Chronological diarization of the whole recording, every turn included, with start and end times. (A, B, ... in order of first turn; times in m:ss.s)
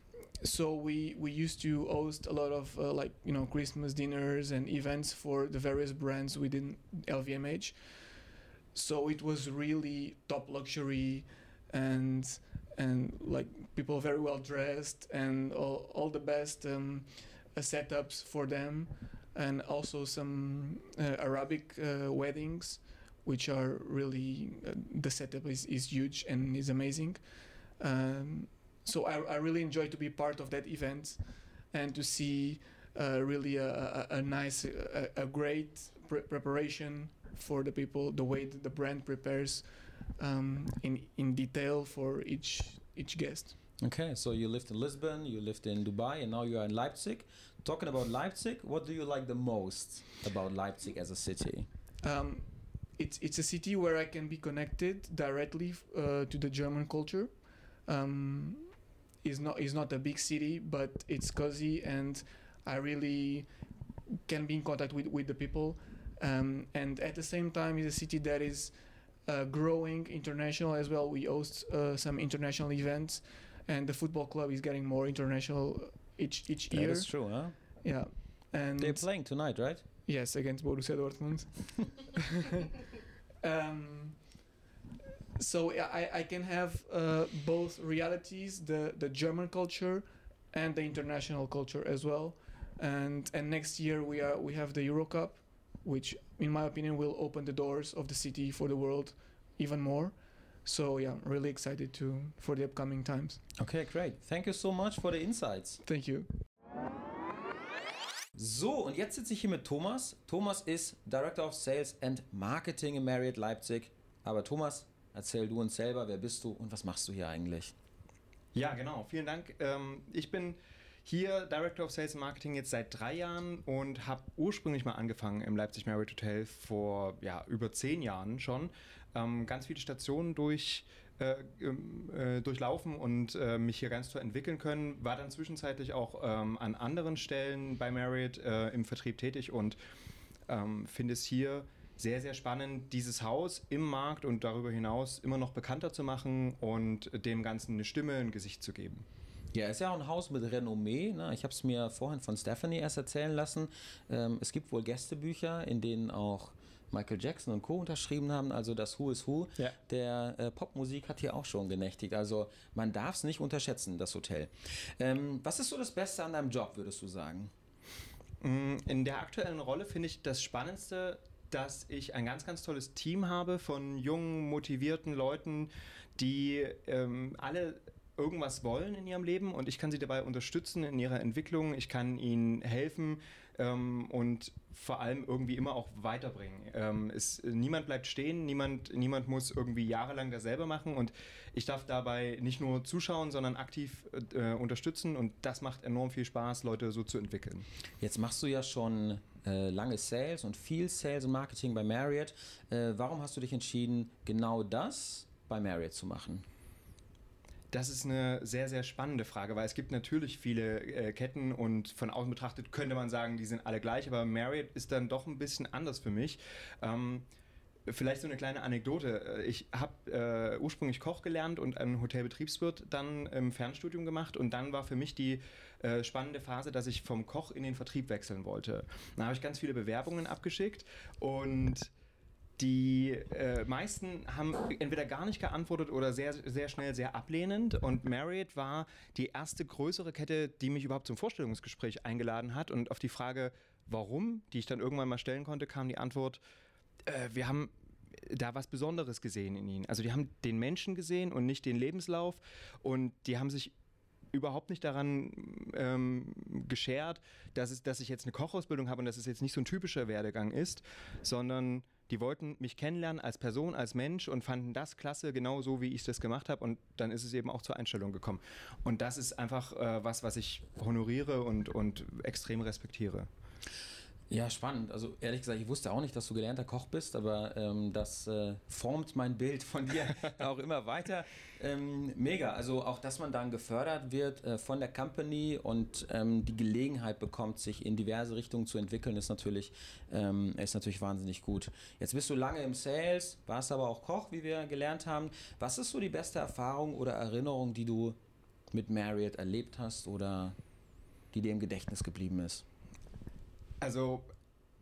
0:00.4-0:43.6 A
0:43.8-0:51.7 B
0:52.0-1:03.5 A
1:04.2-1:22.2 A
1:16.7-1:18.2 B
1:18.8-1:19.9 B
1:23.4-1:24.4 A
1:25.4-1:43.4 A
1:43.6-1:45.8 B
1:45.8-1:46.3 A
1:48.4-1:57.7 B
1:58.5-2:19.8 C
2:20.5-2:29.0 C
2:29.5-2:47.5 B
2:48.4-3:17.7 C
3:18.0-3:26.4 B
3:27.7-3:37.3 C
3:37.9-3:51.9 C
3:52.6-4:06.4 C
4:07.1-4:13.7 C
4:14.3-4:33.3 C
4:34.3-4:58.2 B
4:58.7-5:00.6 B
5:01.3-5:02.6 B
5:03.8-5:04.3 C